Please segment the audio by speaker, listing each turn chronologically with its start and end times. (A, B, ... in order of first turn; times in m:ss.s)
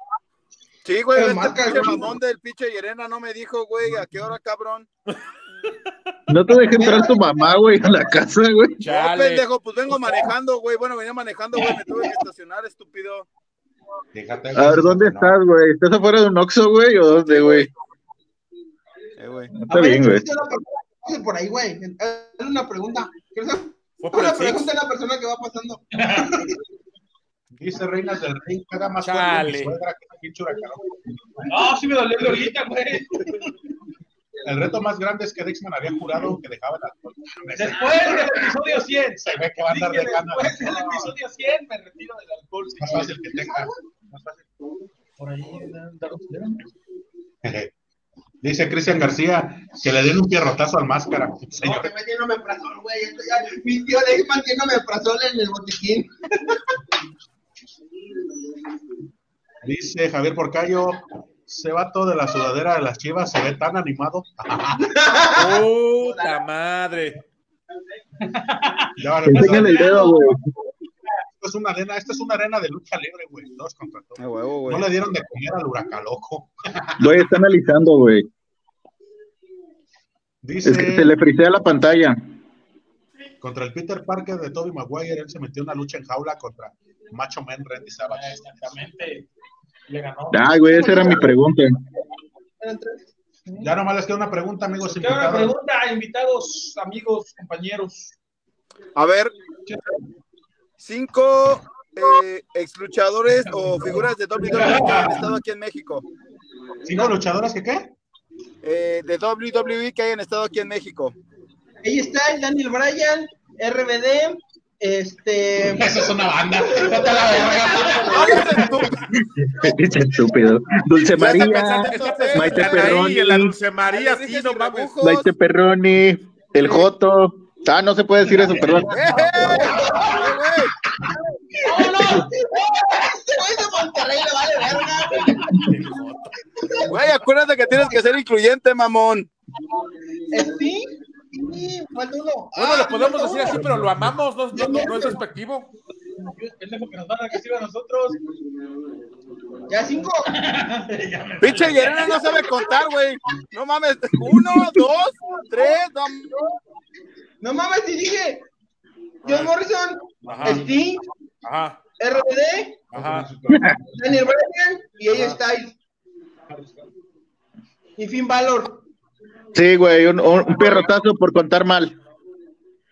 0:00.8-0:04.9 A
0:01.1-0:02.2 B
0:06.3-0:08.8 C
0:06.7-0:07.6 B
0:08.8-0:09.4 D
0:08.9-0:13.3 A
0:14.1-0:15.3 E
0:14.6-0:17.7 C
0:19.2-0:19.5 A
0:19.6-0:20.2 C
0:19.7-0:25.8 B
0:24.0-0:24.7 D
0:25.9-0:26.5 F
0:27.5-0:31.5 E
0:29.0-0:29.7 D
0:31.5-0:33.5 F
0:34.4-0:38.4 E
0:37.5-0:43.2 F
0:39.2-0:41.1 E
0:42.8-0:44.4 E
0:43.4-0:43.7 B
0:45.2-0:46.6 F
0:47.4-0:47.7 E
0:48.4-0:51.9 E
0:51.6-0:56.6 B
0:59.6-1:05.0 E
1:04.9-1:06.3 B
1:05.3-1:07.2 D
1:08.2-1:08.9 F
1:09.0-1:10.0 E
1:09.2-1:10.4 C
1:09.6-1:10.2 B
1:11.4-1:17.3 E
1:14.2-1:14.9 A
1:17.0-1:18.3 C
1:20.4-1:21.1 E
1:20.6-1:22.2 C
1:23.4-1:28.8 E
1:28.1-1:29.3 F
1:29.9-1:31.2 F
1:30.3-1:31.8 C
1:30.7-1:31.4 B
1:32.6-1:33.1 B
1:33.5-1:33.7 F
1:33.6-1:35.5 E
1:34.8-1:38.1 F
1:39.0-1:39.3 A
1:39.7-1:40.0 F
1:40.8-1:46.0 A
1:43.8-1:45.2 F
1:46.8-1:47.9 E
1:48.6-1:51.2 A
1:51.8-1:58.6 B
1:55.7-1:59.0 E
1:58.1-1:59.0 A
1:59.5-2:03.5 C
2:01.0-2:04.9 D
2:01.2-2:03.2 A
2:03.8-2:05.3 A
2:05.0-2:09.0 C
2:08.9-2:10.7 A
2:09.4-2:10.4 B
2:11.0-2:15.5 B
2:11.6-2:12.3 F
2:15.4-2:16.3 D
2:16.6-2:17.0 B
2:16.9-2:19.3 A
2:20.3-2:23.7 B
2:22.6-2:25.7 D
2:24.5-2:25.2 B
2:26.2-2:28.2 F
2:29.7-2:30.3 B
2:30.2-2:32.6 F
2:31.4-2:36.4 A
2:37.4-2:38.5 B
2:39.2-2:41.0 B
2:39.2-2:39.5 D
2:40.2-2:40.6 E
2:40.3-2:40.6 D
2:41.4-2:41.8 D
2:42.0-2:42.8 B
2:42.9-2:43.8 E
2:42.9-2:43.3 D
2:43.9-2:45.8 B
2:48.0-2:48.8 B
2:49.5-2:52.0 C
2:50.6-2:50.9 B